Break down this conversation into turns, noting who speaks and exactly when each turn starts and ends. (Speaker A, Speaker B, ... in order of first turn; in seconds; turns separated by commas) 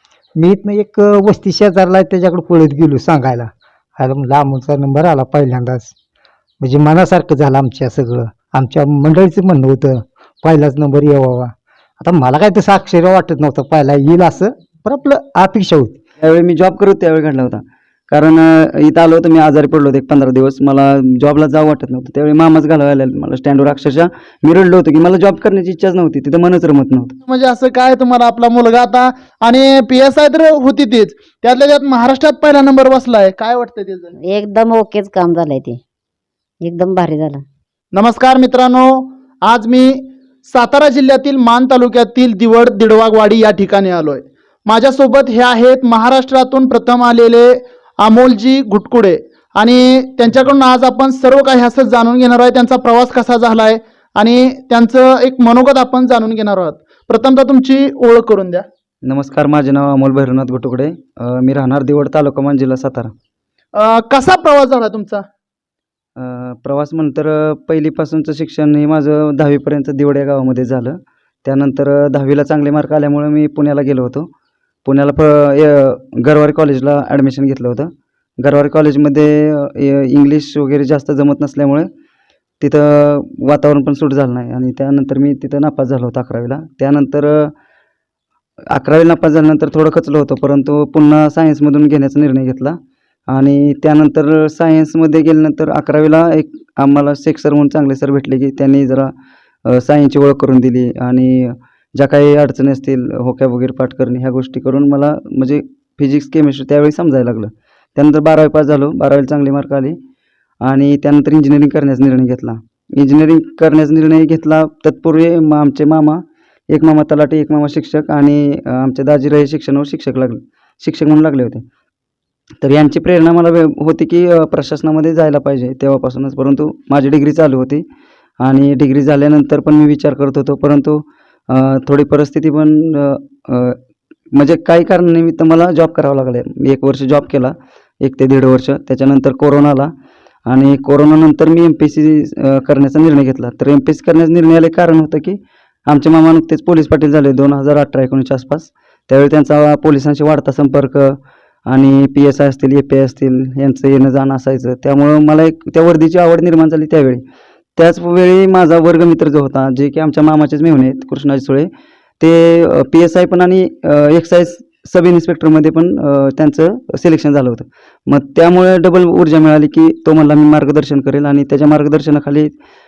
Speaker A: 0.3-5.9, Speaker A: 6.6-16.0, Speaker B: 16.2-27.1, Speaker C: 27.3-34.1, Speaker D: 34.2-35.8, Speaker D: 36.6-37.4, Speaker C: 37.9-58.6, Speaker B: 59.0-63.1, Speaker C: 63.7-65.2, Speaker B: 66.2-74.3, Speaker B: 74.8-81.9, Speaker B: 82.6-87.5, Speaker B: 88.7-92.8, Speaker B: 93.3-99.1, Speaker B: 99.7-110.0, Speaker B: 110.6-121.6, Speaker B: 122.6-127.8, Speaker B: 128.4-133.8, Speaker B: 134.3-139.9, Speaker B: 140.4-157.2, Speaker B: 157.8-161.7, Speaker B: 162.2-172.5